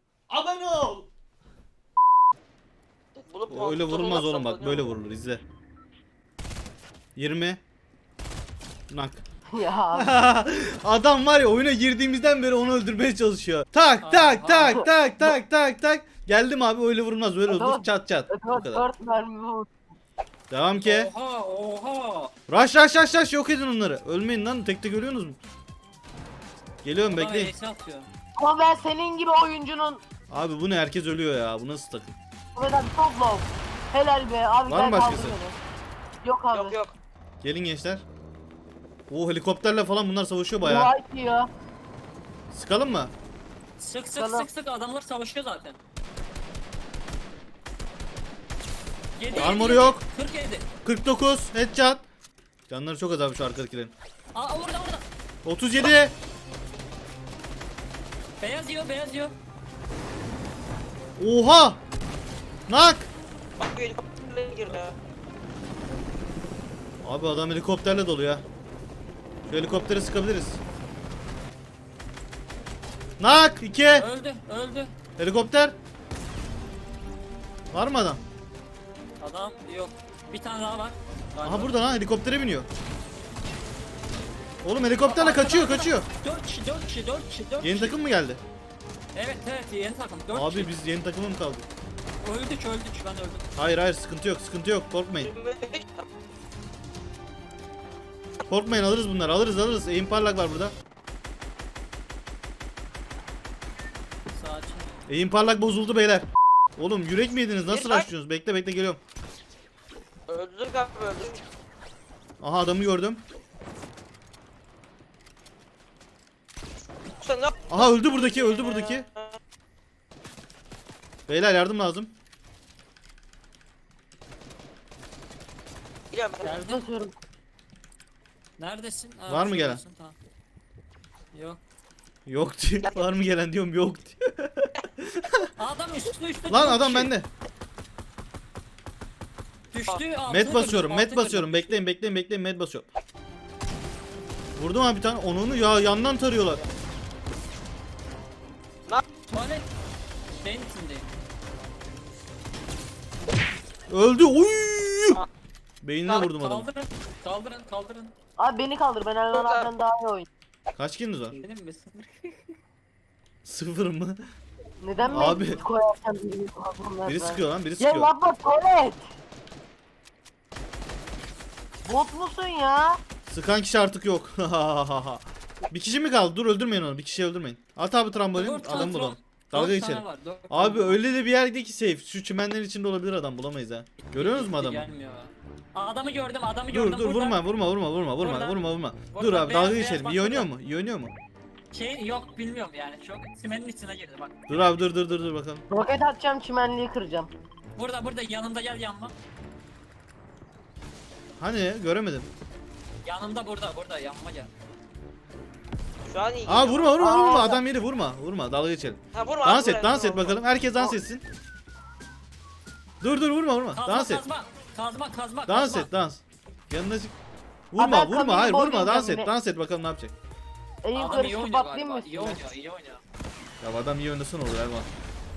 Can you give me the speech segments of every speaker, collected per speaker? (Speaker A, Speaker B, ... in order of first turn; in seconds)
Speaker A: 0.3-1.1, 3.5-5.4, 7.2-7.6, 8.9-9.2, 9.9-18.8, 20.5-21.1, 22.5-25.4, 26.8-27.5, 30.3-32.1, 34.7-35.4, 37.4-38.0, 39.1-40.9, 42.5-43.1, 49.3-50.0, 50.8-52.0, 52.7-53.9, 55.4-56.1, 61.2-61.8, 62.7-63.1, 67.0-68.4, 69.5-70.6, 73.2-74.1, 75.2-75.8, 77.7-78.2, 81.4-82.7, 84.6-86.1, 87.6-88.4, 90.3-91.6, 93.5-95.3, 98.5-100.7, 105.1-109.0, 112.4-113.2, 117.7-119.0, 121.3-122.1, 129.3-129.8, 132.3-135.5, 136.5-137.3, 140.3-142.8, 144.6-146.6, 153.9-155.2, 155.8-156.7, 160.8-161.4, 163.4-164.2, 165.1-165.6, 167.0-168.1, 173.3-184.8, 186.7-191.1, 194.5-195.6, 201.4-202.3, 206.5-211.2, 213.0-214.2, 215.5-217.1, 217.7-220.1, 223.6-224.9
Speaker B: 3.1-4.9, 36.5-36.9, 63.6-65.0, 95.2-96.0, 107.7-108.1, 110.3-111.4, 117.2-119.4, 126.1-126.6, 132.8-133.1, 159.3-159.7, 206.1-206.9, 209.1-210.9
Speaker C: 9.5-10.3, 14.7-15.3, 17.5-19.7, 28.4-30.0, 32.5-35.6, 36.2-36.8, 40.6-41.5, 44.1-44.5, 126.6-127.2, 158.4-160.3, 164.8-169.0, 171.8-173.0, 195.7-197.3, 207.0-207.6, 217.8-219.3, 220.8-222.4
Speaker D: 14.0-14.9, 20.8-22.3, 27.1-28.1, 43.8-45.8, 49.1-50.6, 54.3-55.0, 58.4-59.3, 73.9-74.9, 79.2-81.8, 85.0-88.0, 89.1-90.7, 92.2-93.5, 104.3-104.9, 126.4-126.8, 128.6-130.2, 131.3-131.6, 135.6-137.1, 139.7-141.8, 149.3-149.7, 150.4-151.1, 156.1-158.1, 161.3-162.5, 178.3-181.0, 184.0-187.5, 188.2-190.5, 191.7-194.3, 197.8-199.1, 203.0-204.5, 213.7-215.9, 220.9-223.0